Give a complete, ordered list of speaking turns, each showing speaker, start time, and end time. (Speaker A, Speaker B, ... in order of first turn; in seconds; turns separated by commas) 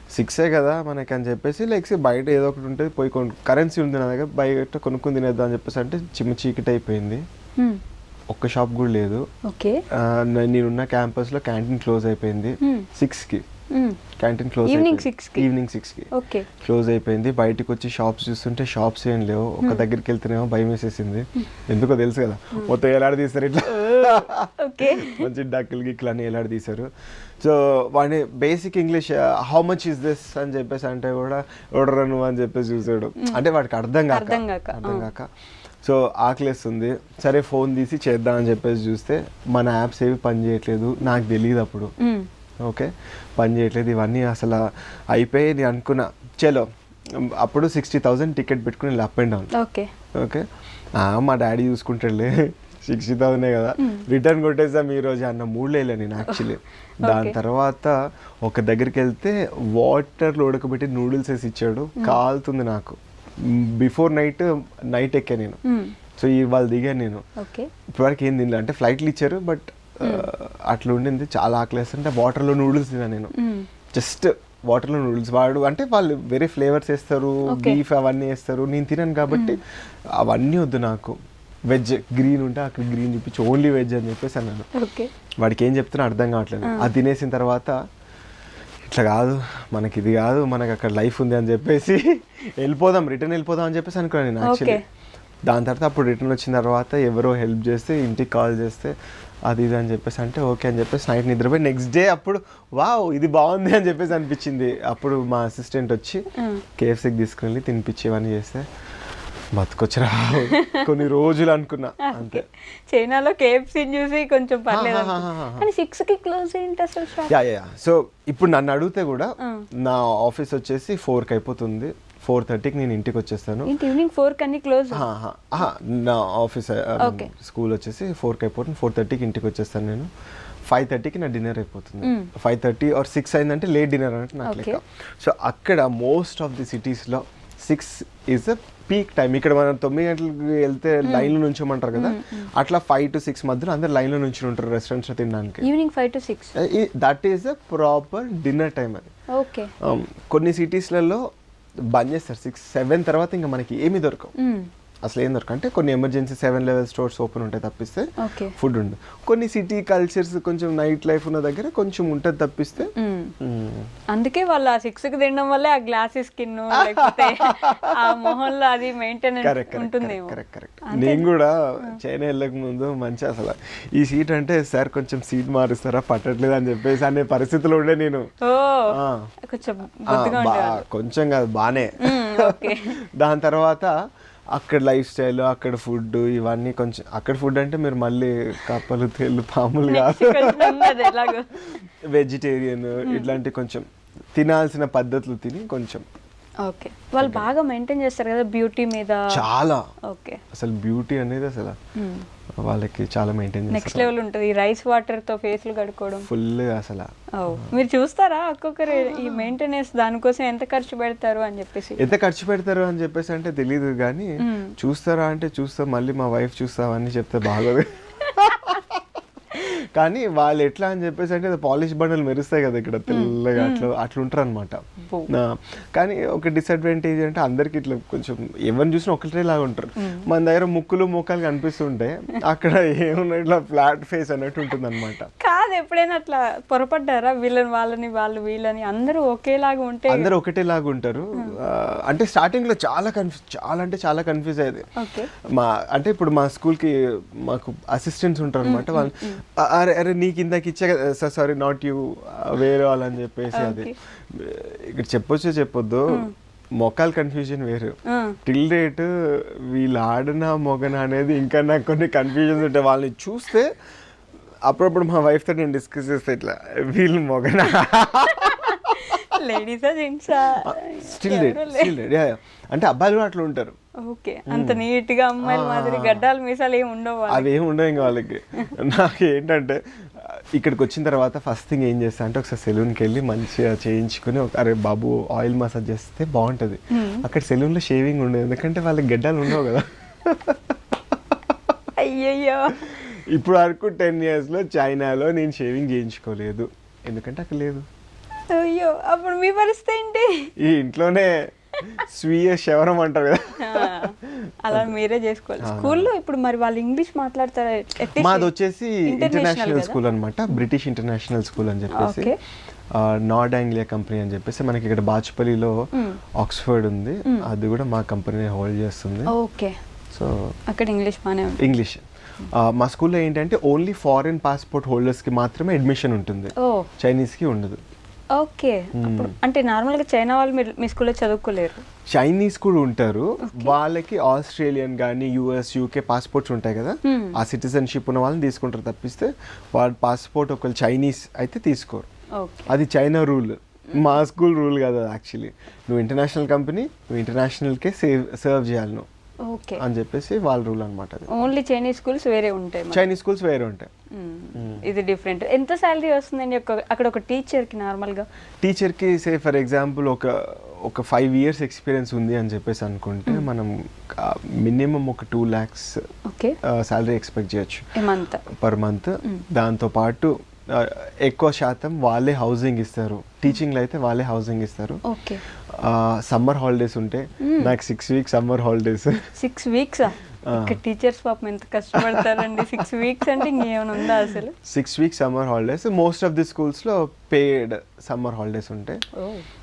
Speaker A: 0.1-7.2, Speaker B: 7.6-7.8, Speaker A: 8.3-9.2, Speaker B: 9.4-9.8, Speaker A: 9.9-13.4, Speaker B: 12.6-12.9, Speaker B: 13.7-14.0, Speaker A: 14.2-26.9, Speaker B: 14.7-15.5, Speaker B: 16.1-16.5, Speaker B: 23.6-25.3, Speaker A: 27.4-35.3, Speaker B: 34.1-35.1, Speaker A: 35.8-41.9, Speaker B: 42.0-42.3, Speaker A: 42.6-49.5, Speaker B: 49.5-49.9, Speaker A: 50.1-50.4, Speaker A: 51.0-65.6, Speaker B: 53.8-54.0, Speaker B: 57.1-57.3, Speaker B: 65.6-65.9, Speaker A: 66.2-67.2, Speaker B: 67.4-67.7, Speaker A: 67.9-73.3, Speaker B: 73.3-73.7, Speaker A: 73.9-79.6, Speaker B: 77.5-77.8, Speaker B: 79.3-79.6, Speaker A: 80.2-81.1, Speaker A: 81.7-84.7, Speaker B: 84.7-85.1, Speaker A: 85.4-87.8, Speaker A: 88.8-92.0, Speaker A: 92.6-94.8, Speaker B: 94.4-94.8, Speaker A: 95.5-98.9, Speaker A: 99.5-106.2, Speaker B: 106.3-106.6, Speaker A: 106.8-108.7, Speaker A: 109.5-112.4, Speaker B: 110.4-110.9, Speaker B: 112.0-117.3, Speaker A: 114.7-115.7, Speaker A: 117.3-123.7, Speaker B: 119.4-119.7, Speaker B: 123.6-125.0, Speaker A: 124.9-130.1, Speaker B: 127.0-127.3, Speaker A: 130.7-145.7, Speaker B: 132.0-132.3, Speaker B: 134.4-134.8, Speaker B: 141.0-141.3, Speaker B: 141.9-142.5, Speaker B: 145.6-146.5, Speaker A: 146.5-149.1, Speaker B: 149.3-149.7, Speaker A: 149.8-151.2, Speaker A: 151.9-154.3, Speaker B: 154.4-154.7, Speaker A: 155.0-163.9, Speaker B: 158.2-158.6, Speaker B: 162.9-163.3, Speaker B: 164.1-171.3, Speaker A: 166.7-168.4, Speaker A: 169.4-178.2, Speaker B: 178.4-180.8, Speaker A: 178.9-179.3, Speaker A: 180.1-183.9, Speaker B: 182.0-182.9, Speaker A: 184.5-196.0, Speaker B: 189.9-191.5, Speaker B: 193.0-193.3, Speaker B: 196.6-199.4, Speaker A: 197.2-197.5, Speaker A: 199.3-199.8, Speaker B: 200.1-200.4, Speaker A: 200.5-201.8, Speaker B: 201.9-202.3, Speaker A: 202.6-204.1, Speaker B: 203.7-206.3, Speaker A: 206.2-207.7, Speaker B: 207.3-212.0, Speaker A: 208.9-209.5, Speaker A: 212.0-235.3, Speaker B: 214.4-214.7, Speaker B: 223.1-223.9, Speaker B: 225.0-225.3, Speaker B: 230.0-230.2, Speaker B: 235.4-240.3, Speaker A: 240.1-244.8, Speaker B: 245.0-245.3, Speaker A: 245.5-263.7, Speaker B: 248.6-249.4, Speaker B: 253.5-253.9, Speaker B: 258.1-258.4, Speaker A: 264.6-269.4, Speaker B: 268.4-271.9, Speaker A: 270.4-273.7, Speaker B: 274.0-277.5, Speaker A: 274.5-274.8, Speaker A: 275.4-276.3, Speaker A: 277.3-290.6, Speaker B: 286.9-287.2, Speaker B: 291.9-293.0, Speaker A: 292.8-297.8, Speaker B: 298.5-300.5, Speaker A: 300.6-304.9, Speaker B: 303.6-308.5, Speaker A: 305.6-306.1, Speaker A: 308.1-312.3, Speaker B: 309.1-310.0, Speaker B: 311.9-312.3, Speaker A: 312.9-315.8, Speaker B: 315.9-316.2, Speaker A: 316.4-319.3, Speaker B: 319.3-319.8, Speaker A: 320.1-320.5, Speaker B: 320.7-321.7, Speaker A: 321.6-327.8, Speaker B: 326.6-326.9, Speaker B: 328.3-331.8, Speaker A: 328.9-329.3, Speaker A: 332.1-342.1, Speaker B: 333.4-333.8, Speaker B: 337.0-337.4, Speaker B: 342.4-342.7, Speaker A: 342.7-349.1, Speaker B: 349.4-349.8, Speaker A: 349.8-351.3, Speaker B: 351.3-353.1, Speaker A: 352.9-353.9, Speaker B: 354.1-358.3, Speaker A: 354.6-354.8, Speaker A: 358.6-366.0, Speaker B: 366.3-366.6, Speaker A: 366.6-367.9, Speaker B: 367.9-368.4, Speaker A: 368.4-375.0, Speaker B: 375.0-375.4, Speaker A: 375.7-379.2, Speaker B: 377.4-377.7, Speaker B: 379.4-384.5, Speaker A: 380.5-380.8, Speaker A: 382.0-382.8, Speaker A: 384.0-389.0, Speaker B: 389.1-389.4